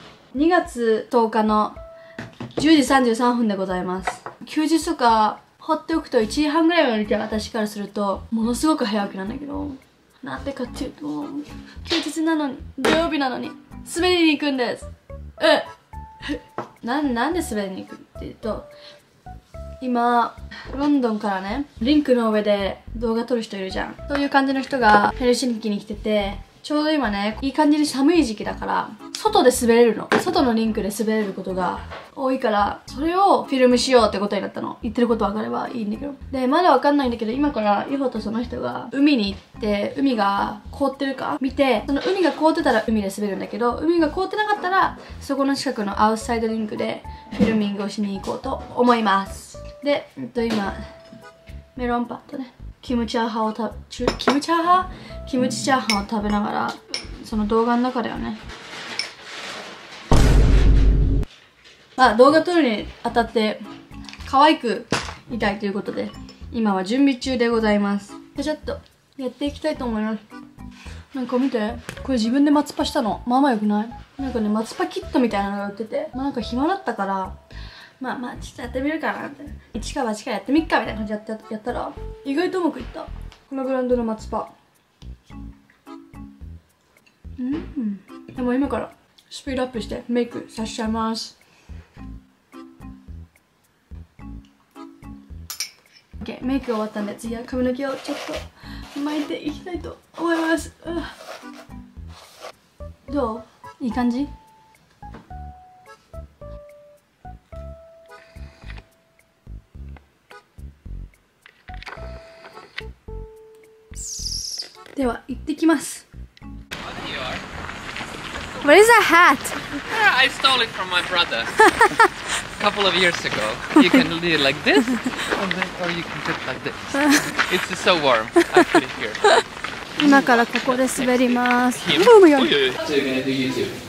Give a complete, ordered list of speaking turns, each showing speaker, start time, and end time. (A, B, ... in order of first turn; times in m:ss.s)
0:00.3-0:01.8 A
0:02.6-0:14.9 A
0:15.4-0:15.7 A
0:16.2-0:18.7 A
0:19.8-0:50.8 A
0:51.8-0:58.4 A
1:02.0-1:03.6 A
1:04.2-1:10.2 A
1:11.1-1:17.4 A
1:18.0-1:24.5 A
1:27.4-1:31.3 A
1:36.2-1:38.4 A
1:39.0-1:41.1 A
1:43.1-1:44.3 A
1:54.9-1:56.0 A
1:56.9-1:57.4 B
1:58.6-1:59.6 A
1:59.9-2:01.6 B
2:01.7-2:02.1 A
2:02.6-2:09.3 B
2:07.0-2:07.3 A
2:10.0-2:12.6 A
2:10.0-2:13.8 B